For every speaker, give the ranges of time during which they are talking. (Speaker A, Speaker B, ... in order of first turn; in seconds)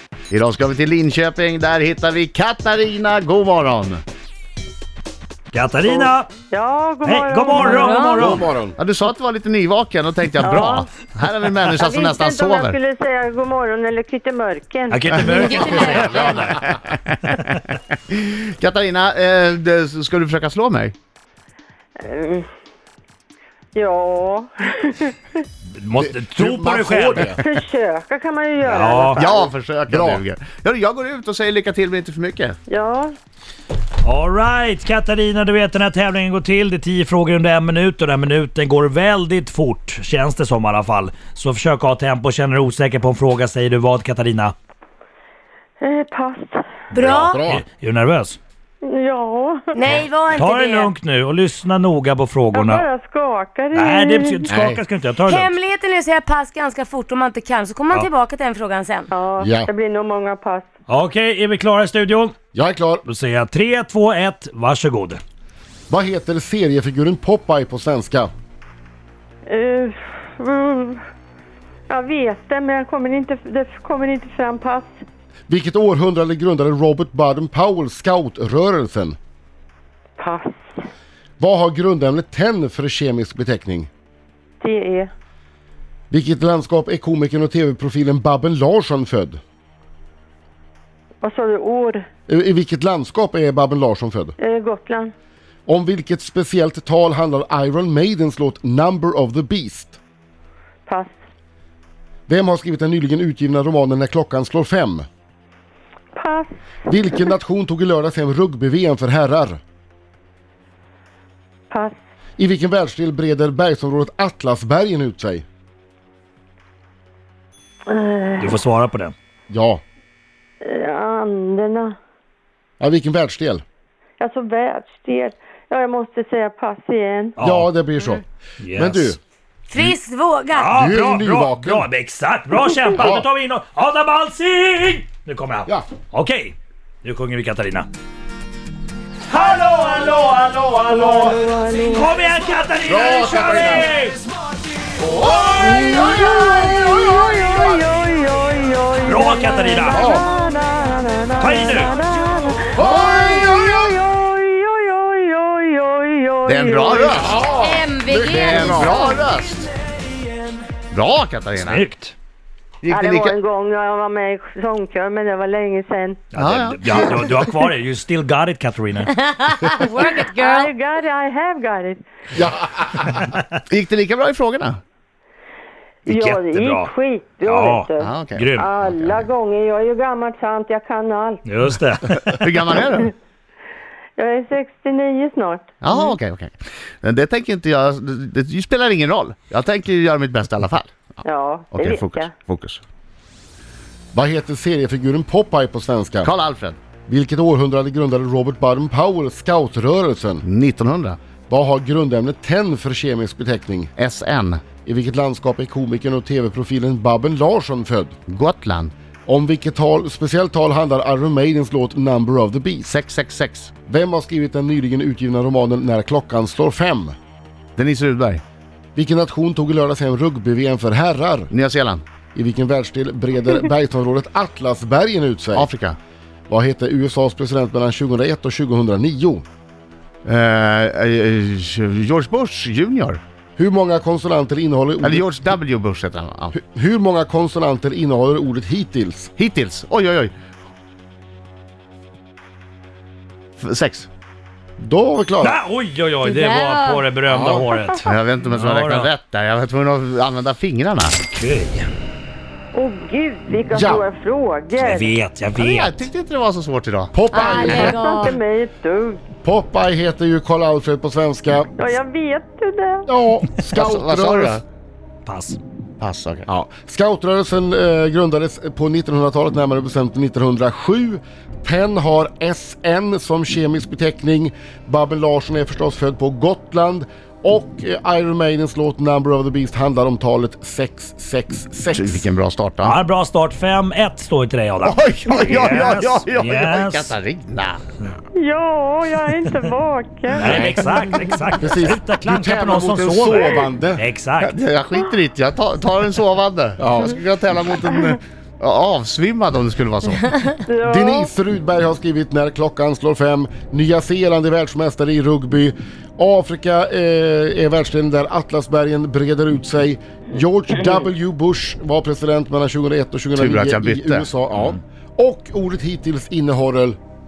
Speaker A: 0.3-4.0, 8.8-12.8, 16.2-20.9, 29.2-32.6, 156.5-157.4, 158.3-159.7, 160.9-161.8, 162.8-163.4, 166.4-167.4, 173.7-174.8, 178.0-179.3, 182.4-183.1, 185.8-190.9, 191.7-192.8, 196.2-196.8, 200.4-201.2, 204.0-204.6, 208.3-208.9, 212.9-213.7, 217.8-218.4, 221.5-222.0, 225.5-226.0, 230.2-233.2, 235.0-236.6, 239.4-240.3, 243.6-244.1, 248.1-251.2, 255.6-257.9, 263.7-264.6, 266.0-266.5, 281.9-283.0, 284.8-287.8, 294.4-300.4, 313.4-314.3
Speaker B: 5.5-6.3, 7.0-8.5, 14.9-16.7, 25.8-27.4, 28.6-29.2, 34.0-44.5, 47.0-48.4, 50.4-52.9, 53.7-55.5, 60.9-62.4, 63.0-65.2, 118.4-119.2, 127.4-127.7, 128.6-129.1, 130.5-137.9, 139.3-144.2, 145.0-146.0, 149.1-150.1, 151.4-151.9, 161.6-162.2, 166.3-169.2, 173.1-173.4, 176.1-176.9, 177.4-178.7, 181.5-182.7, 245.4-249.1, 251.3-251.9, 254.8-255.9, 265.2-265.6, 282.8-287.1, 290.4-294.6, 314.5-314.8
Speaker C: 5.9-7.9, 10.4-10.9, 11.7-15.8, 22.0-22.5, 23.7-25.2, 27.4-29.5, 32.7-33.1, 45.8-46.6, 48.8-49.8, 52.5-54.4, 59.1-60.7, 69.5-71.0, 71.9-75.0, 80.2-80.6, 84.6-85.1, 91.2-92.1, 94.4-95.1, 100.9-101.1, 106.1-106.6, 111.7-112.0, 117.9-118.6, 120.6-122.0, 124.2-127.4, 140.9-142.1, 145.6-157.4, 162.9-166.2, 169.8-172.0, 176.1-181.4, 184.2-185.7, 191.2-192.3, 252.7-255.1, 257.6-259.2, 261.8-263.1, 288.4-290.7, 300.7-301.3
Speaker D: 7.6-8.3, 15.4-15.9, 46.9-47.5, 49.7-50.9, 55.3-59.1, 129.7-130.7, 157.6-159.2, 169.2-170.7, 246.2-247.1, 257.3-258.4
Speaker E: 8.2-8.8, 26.0-27.4, 29.9-30.2, 47.0-47.6, 54.5-54.8, 59.4-59.7, 62.5-63.0, 65.9-68.3, 75.5-79.2, 81.4-83.9, 86.1-89.4, 92.3-94.3, 95.7-100.0, 102.3-105.1, 106.9-109.6, 112.4-115.5, 119.5-119.8, 122.8-123.6, 127.4-128.2, 128.7-129.2, 130.8-131.9, 132.9-133.3, 142.9-143.9, 149.9-150.2, 152.8-153.9, 157.1-159.2, 172.4-173.1, 194.1-196.3, 197.1-200.4, 201.5-203.9, 204.8-208.2, 209.3-212.9, 213.9-217.2, 218.9-221.5, 222.3-225.7, 226.5-229.4, 233.6-235.4, 236.5-239.3, 244.8-245.6, 247.3-247.7, 253.7-254.1, 257.1-257.9, 259.4-261.7, 263.1-264.6, 266.5-282.2, 290.4-290.9, 291.6-294.0, 296.8-297.2, 300.9-317.0